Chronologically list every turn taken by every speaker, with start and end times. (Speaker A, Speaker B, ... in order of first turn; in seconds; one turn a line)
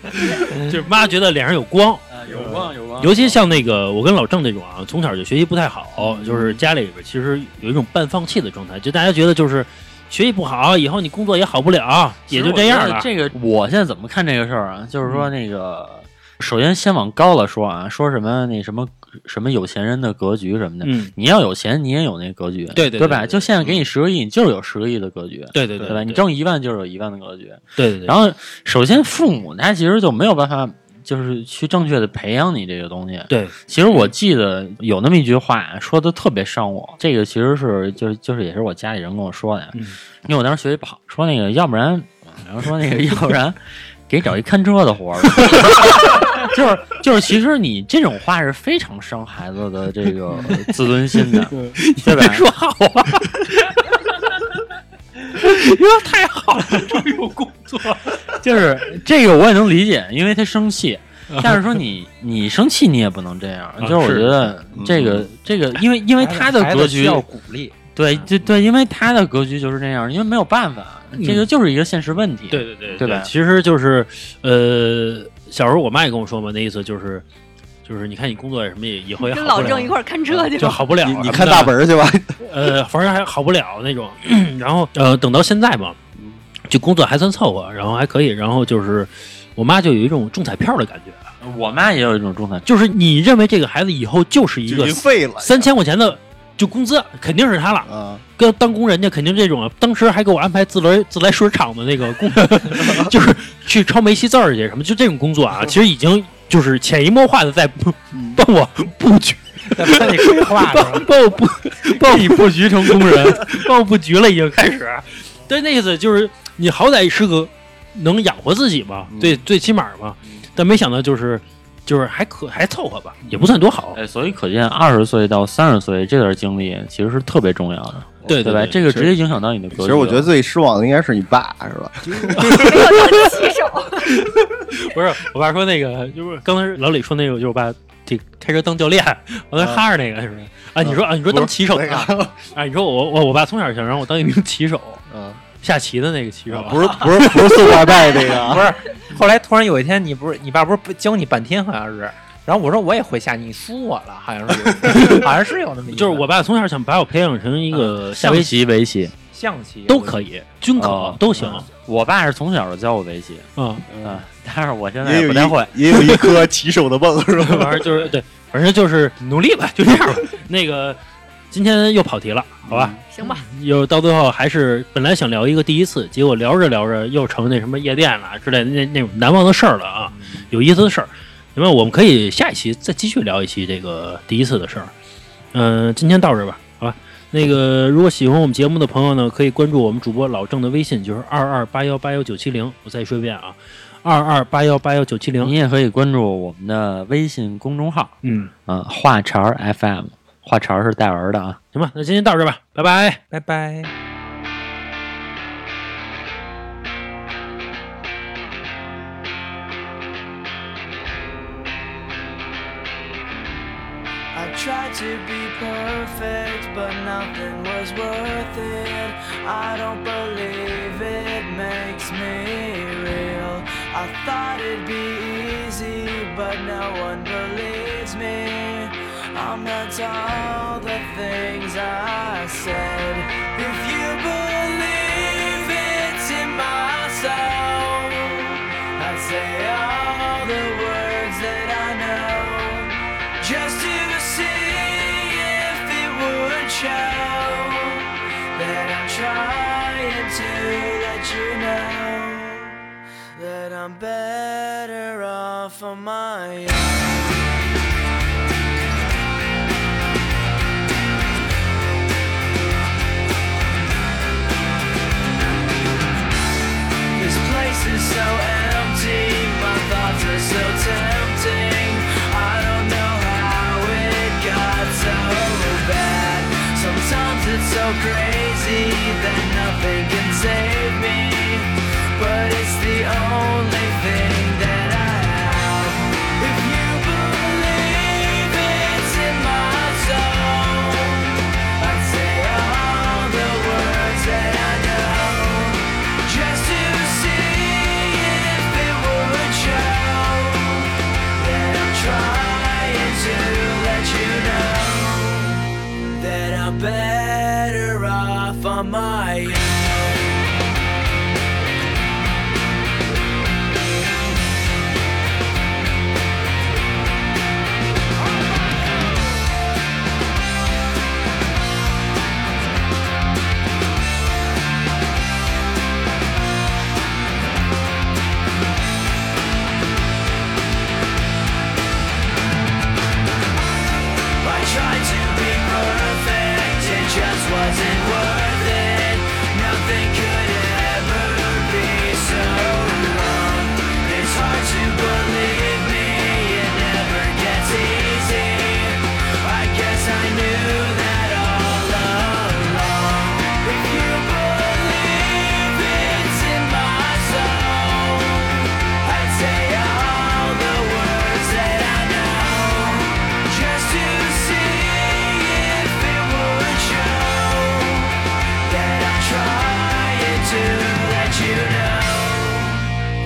Speaker A: 0.2-13.1
Speaker B: 2.1-3.4
Speaker C: 6.0-6.6
Speaker B: 12.3-52.5
Speaker A: 20.8-21.1
Speaker A: 22.7-23.5
Speaker A: 25.5-26.2
Speaker A: 27.8-28.2
Speaker A: 33.3-34.1
Speaker A: 51.5-54.4
Speaker A: 55.3-58.3
Speaker B: 58.3-67.2
Speaker A: 61.3-61.8
Speaker A: 63.8-64.5
Speaker C: 64.7-65.3
Speaker D: 66.2-68.3
Speaker B: 68.0-73.3
Speaker A: 71.1-71.5
Speaker A: 72.5-77.2
Speaker A: 77.8-81.8
Speaker E: 79.2-80.8
Speaker C: 81.0-82.3
Speaker A: 82.4-86.0
Speaker C: 86.2-86.4
Speaker A: 86.7-91.2
Speaker B: 91.4-92.7
Speaker A: 92.7-124.0
Speaker C: 94.7-95.7
Speaker C: 97.9-98.2
Speaker C: 108.1-108.4
Speaker D: 109.7-111.1
Speaker B: 111.9-113.5
Speaker C: 119.1-119.4
Speaker B: 123.9-130.3
Speaker A: 128.2-129.1
Speaker C: 129.7-133.1
Speaker A: 132.1-133.3
Speaker E: 132.4-134.0
Speaker A: 134.0-145.0
Speaker C: 139.6-139.8
Speaker C: 140.8-142.4
Speaker C: 145.1-145.4
Speaker A: 145.6-147.6
Speaker C: 146.5-148.7
Speaker D: 148.4-156.3
Speaker A: 154.9-155.3
Speaker A: 155.9-158.5
Speaker B: 158.0-159.1
Speaker D: 159.3-160.3
Speaker A: 159.9-161.7
Speaker B: 160.8-165.8
Speaker A: 163.6-163.9
Speaker C: 165.0-168.1
Speaker A: 165.9-166.5
Speaker A: 167.4-171.0
Speaker A: 171.5-184.9
Speaker C: 172.7-173.0
Speaker E: 173.1-173.5
Speaker A: 185.5-195.6
Speaker B: 195.4-201.6
Speaker A: 198.2-198.5
Speaker A: 201.7-203.2
Speaker D: 203.3-203.9
Speaker F: 214.3-252.8
Speaker F: 253.4-257.1
Speaker F: 267.1-310.2
Speaker F: 334.4-372.9